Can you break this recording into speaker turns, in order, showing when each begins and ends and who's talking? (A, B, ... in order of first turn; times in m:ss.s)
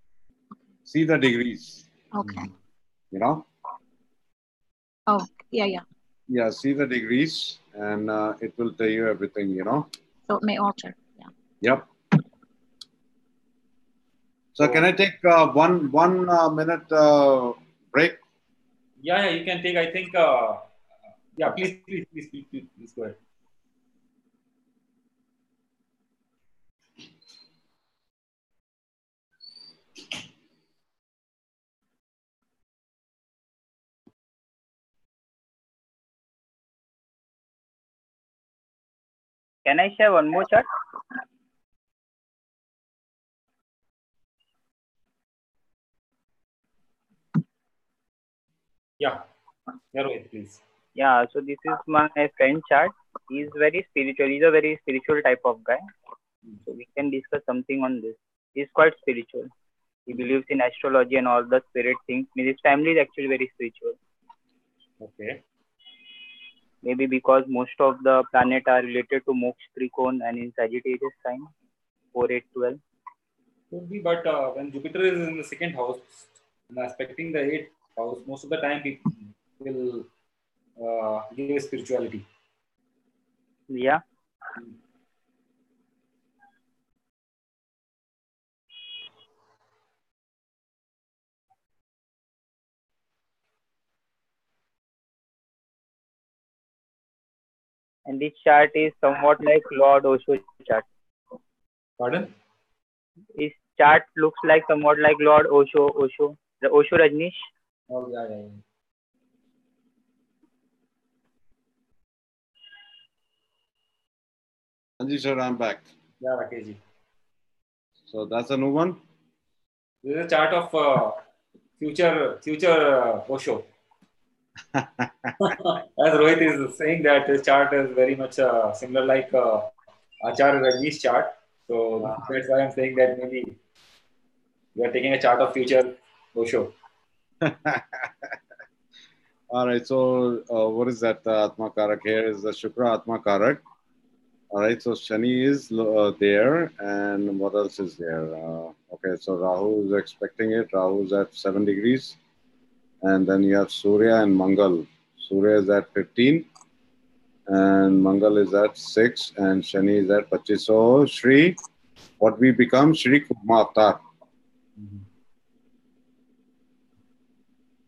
0:00.9-0:01.9 A
0:02.1-0:02.5 B
0:03.1-0:03.5 A
0:05.1-0:05.8 B
0:06.3-0:09.9 A
0:10.3-0:11.3 B
0:11.6-0:11.9 A
0:14.6-0:18.2 A
0:19.0-0:20.6 C
0:21.4-0:23.2 C
0:39.6-0:40.7 D
0:49.9-0:50.6 C
0:51.0-0:55.8 D
0:56.7-0:59.5 D
1:00.1-1:04.0 D
1:05.0-1:05.4 C
1:06.8-1:11.5 D
1:12.1-1:12.8 D
1:13.7-1:20.1 C
1:20.8-1:22.3 C
1:23.7-1:24.0 D
1:38.1-1:40.9 D
1:42.0-1:42.3 C
1:43.4-1:47.5 D
1:47.9-1:48.6 C
1:55.0-1:55.9 A
1:56.2-1:56.8 C
1:58.1-1:59.0 A
2:00.0-2:01.2 C
2:01.8-2:03.7 C
2:04.7-2:05.4 A
2:05.4-2:09.7 C
2:10.2-2:13.6 C
2:12.0-2:12.3 A
2:14.8-2:16.7 C
2:17.4-2:18.4 A
2:19.5-2:23.6 A
2:24.5-2:32.2 A
2:33.0-2:36.5 A
2:37.5-2:41.6 A
2:42.2-2:44.0 A
2:44.8-2:45.1 C